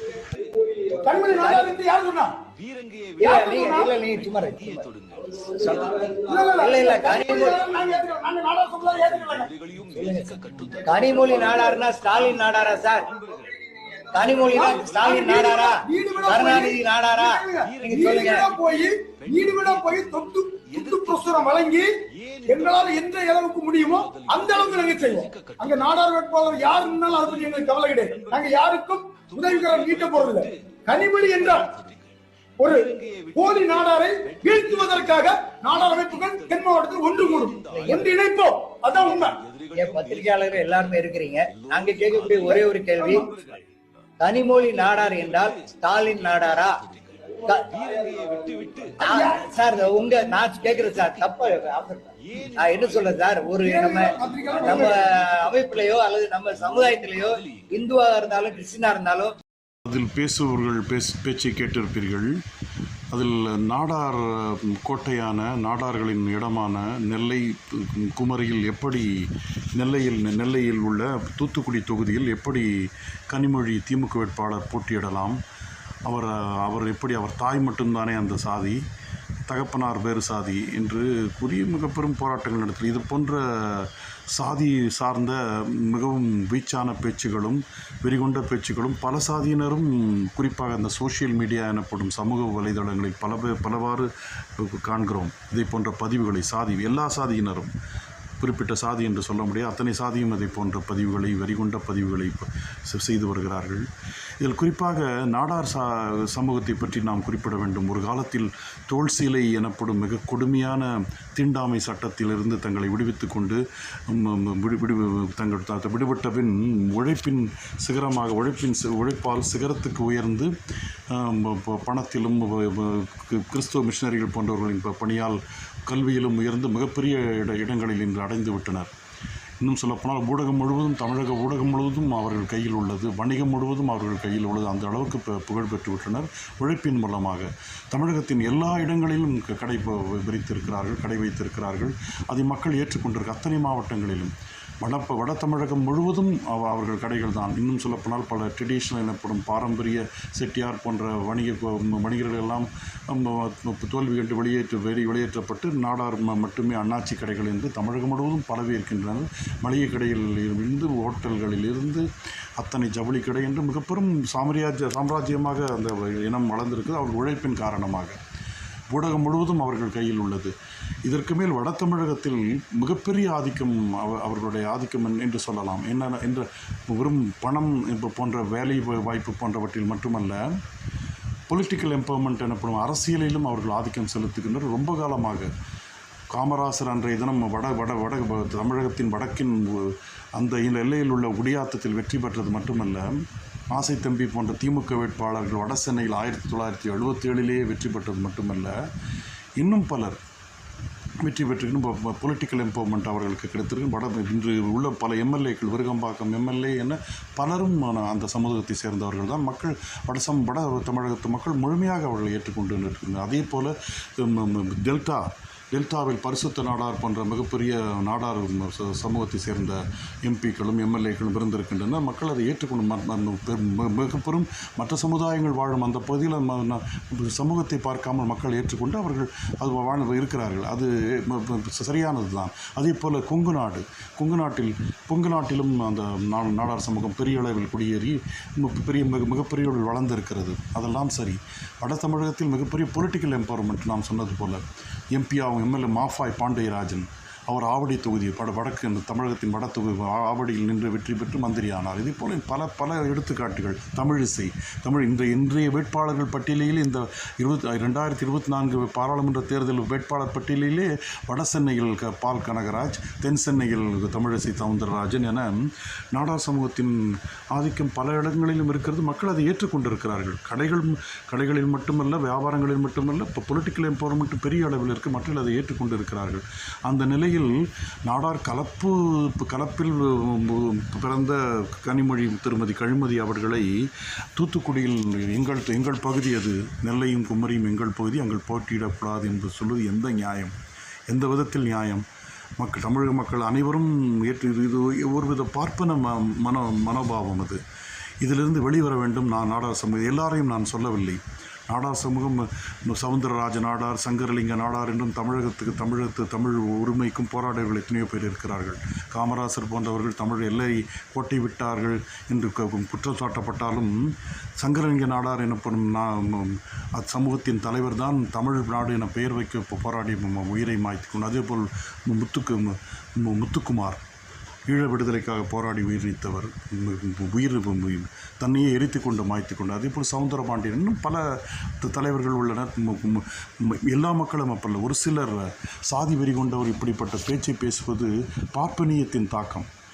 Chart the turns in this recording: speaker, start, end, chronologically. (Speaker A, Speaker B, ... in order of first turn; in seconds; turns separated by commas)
Speaker A: 0.8-2.4, Speaker B: 1.4-1.7, Speaker B: 3.2-7.6, Speaker A: 3.2-3.9, Speaker A: 5.7-9.6, Speaker B: 9.9-13.1, Speaker A: 11.2-11.6, Speaker A: 13.5-31.9, Speaker B: 14.1-18.5, Speaker A: 32.6-39.5, Speaker B: 37.7-38.0, Speaker B: 39.7-43.4, Speaker A: 42.5-43.3, Speaker B: 44.2-46.7, Speaker B: 47.4-47.9, Speaker A: 48.0-49.6, Speaker B: 49.0-59.3, Speaker A: 53.6-55.1, Speaker C: 59.9-62.4, Speaker C: 63.1-75.4, Speaker C: 76.1-78.8, Speaker C: 79.5-97.7, Speaker C: 98.4-103.9, Speaker C: 104.4-120.5, Speaker C: 121.1-128.9, Speaker C: 129.6-162.1, Speaker C: 162.6-168.2, Speaker C: 168.9-170.5, Speaker C: 171.1-180.6, Speaker C: 181.5-185.5, Speaker C: 186.3-198.8, Speaker C: 199.6-200.2, Speaker C: 201.2-277.6, Speaker C: 278.1-290.5, Speaker C: 291.1-292.1, Speaker C: 292.6-297.6, Speaker C: 298.2-324.0, Speaker C: 324.7-339.7